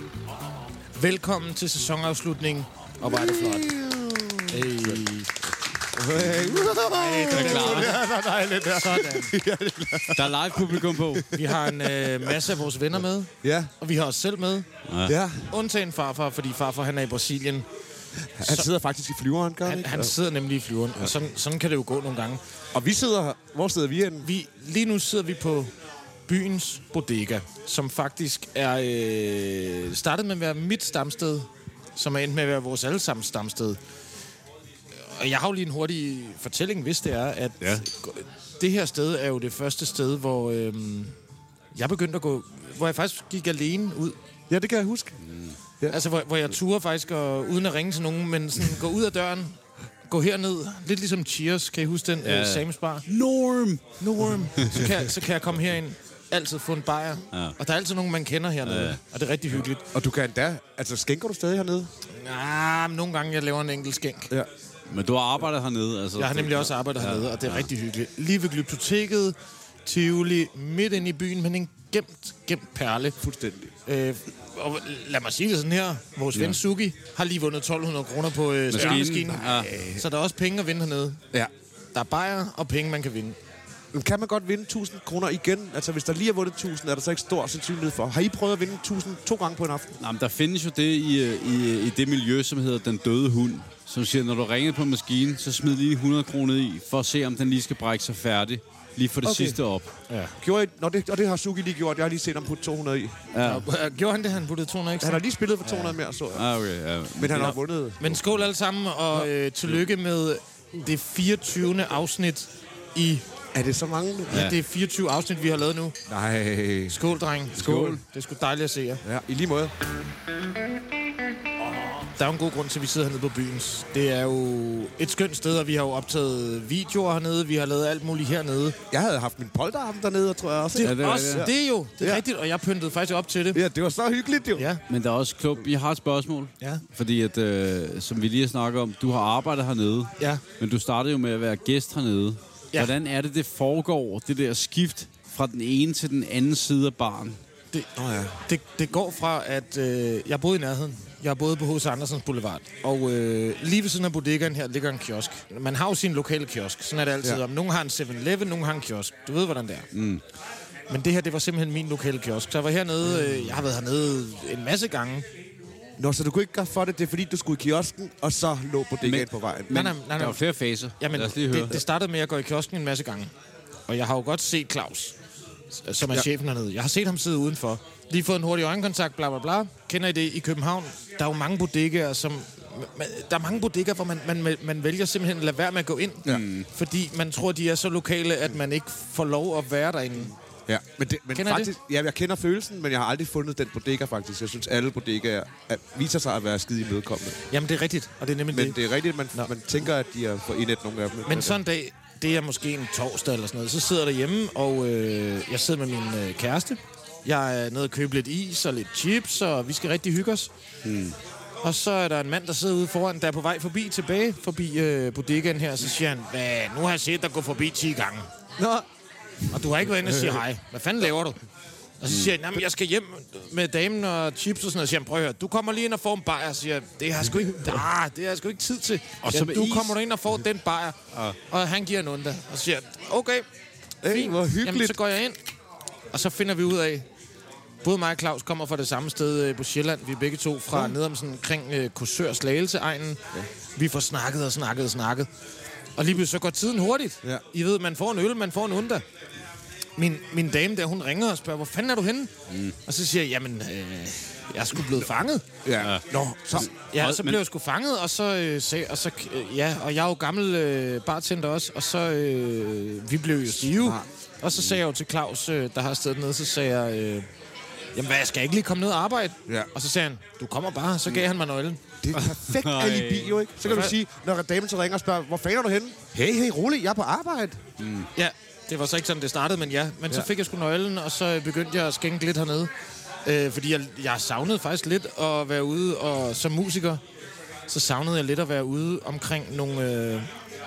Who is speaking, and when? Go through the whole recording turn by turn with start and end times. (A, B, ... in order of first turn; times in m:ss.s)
0:01.0-0:03.7 A
0:03.0-0:05.0 B
0:04.5-0:05.3 A
0:05.9-0:12.5 B
0:06.6-0:09.3 A
0:07.3-0:08.0 C
0:10.1-0:11.3 C
0:11.3-0:14.7 A
0:13.4-0:13.7 B
0:14.8-0:15.1 C
0:15.0-0:15.5 B
0:15.5-0:17.7 A
0:18.3-0:20.1 B
0:18.4-0:18.7 A
0:19.6-0:22.4 A
0:22.7-0:24.3 B
0:24.2-0:25.7 A
0:26.3-0:33.8 A
0:35.0-0:41.1 A
0:41.7-0:44.2 A
0:44.5-0:45.2 B
0:45.2-0:45.6 C
0:45.9-0:53.0 A
0:52.2-0:54.9 C
0:54.0-0:59.9 A
0:58.6-0:59.0 C
0:59.9-1:01.9 B
1:02.1-1:04.3 A
1:04.9-1:07.7 C
1:06.2-1:13.2 A
1:13.2-1:13.7 B
1:13.8-1:21.2 A
1:18.7-1:19.7 C
1:18.7-1:20.0 B
1:21.9-1:23.4 A
1:23.9-1:30.0 B
1:30.0-1:39.9 C
1:39.2-1:39.6 B
1:40.1-1:40.3 A
1:40.4-1:43.2 B
1:43.3-1:43.6 C
1:43.4-1:46.0 A
1:45.0-1:46.5 B
1:46.3-1:47.6 C
1:47.1-1:48.4 B
1:48.0-1:53.2 A
1:53.5-1:54.5 B
1:54.3-1:56.0 A
1:56.1-1:57.0 B
1:56.9-1:59.0 A
1:57.6-1:58.0 C
1:57.6-1:58.0 B
1:59.0-1:59.7 B
2:02.2-2:08.8 A
2:08.9-2:12.2 B
2:10.7-2:13.6 A
2:10.8-2:11.5 C
2:13.5-2:14.7 B
2:14.9-2:27.4 C
2:28.0-2:28.4 B
2:28.4-2:39.9 A
2:39.9-2:40.2 C
2:40.9-2:45.2 A
2:46.0-2:49.9 B
2:49.0-2:51.8 C
2:49.7-2:50.4 A
2:51.0-2:53.3 A
2:53.9-2:55.1 A
2:55.7-3:10.3 A
3:06.2-3:06.7 C
3:10.7-3:17.4 B
3:11.3-3:11.7 A
3:17.5-3:18.8 A
3:18.5-3:21.6 B
3:21.2-3:30.5 A
3:30.8-3:31.2 C
3:31.6-3:38.3 A
3:38.6-3:38.9 B
3:39.5-3:41.4 A
3:40.0-3:40.4 B
3:42.0-3:53.4 A
3:49.2-3:50.0 C
3:54.0-3:55.0 B
3:54.1-3:55.4 A
3:56.1-3:57.1 A
3:57.8-4:05.3 A
4:06.0-4:09.0 A
4:10.0-4:12.3 A
4:12.5-4:12.7 C
4:12.8-4:15.4 A
4:15.6-4:16.7 B
4:15.8-4:17.4 C
4:16.8-4:27.3 A
4:23.4-4:24.0 B
4:27.9-4:31.8 A
4:32.0-4:37.6 B
4:32.1-4:33.9 C
4:33.7-4:33.9 A
4:37.8-4:38.1 C
4:38.1-4:42.7 A
4:43.2-4:47.0 A
4:47.7-4:50.3 A